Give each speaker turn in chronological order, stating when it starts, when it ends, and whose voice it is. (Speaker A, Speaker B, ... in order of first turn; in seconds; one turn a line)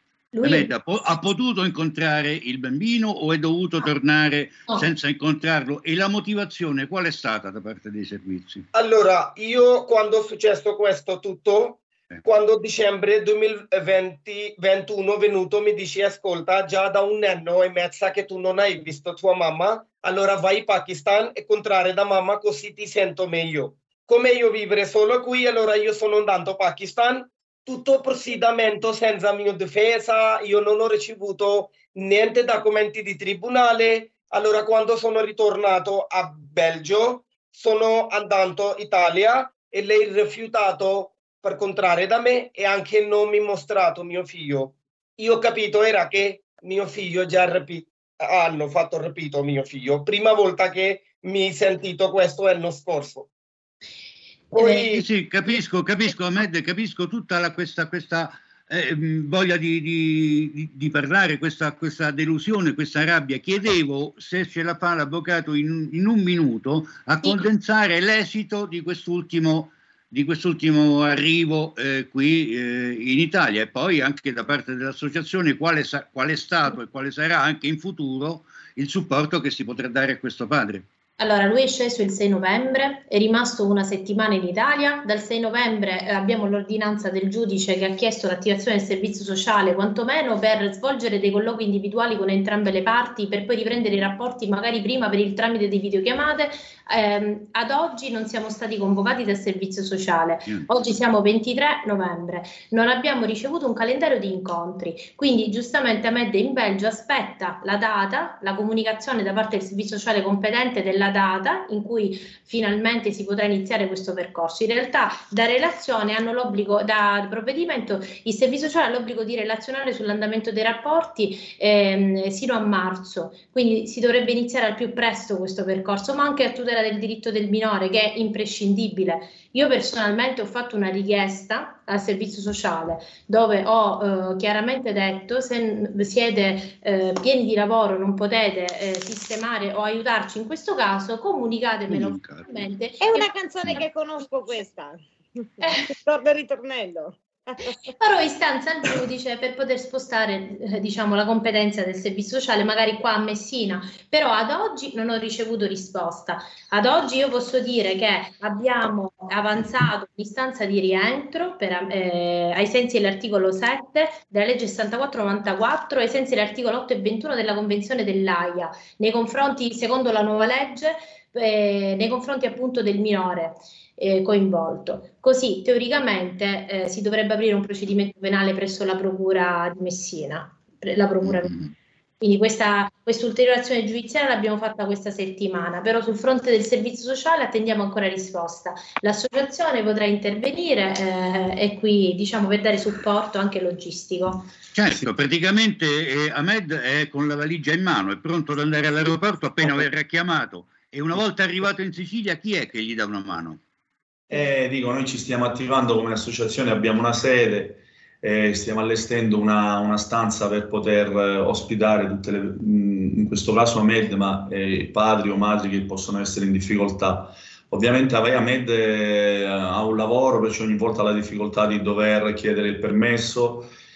Speaker A: 0.3-1.2
Speaker B: 0.4-8.6
Speaker C: 8.7-53.3
Speaker A: 54.5-55.6
Speaker C: 54.5-55.0
Speaker B: 54.7-80.8
Speaker A: 81.2-143.8
Speaker B: 141.9-142.7
Speaker D: 143.0-147.9
Speaker A: 145.6-145.9
Speaker A: 148.0-181.5
Speaker B: 181.3-181.7
Speaker A: 182.2-194.5
Speaker B: 194.7-203.6
Speaker E: 204.4-223.7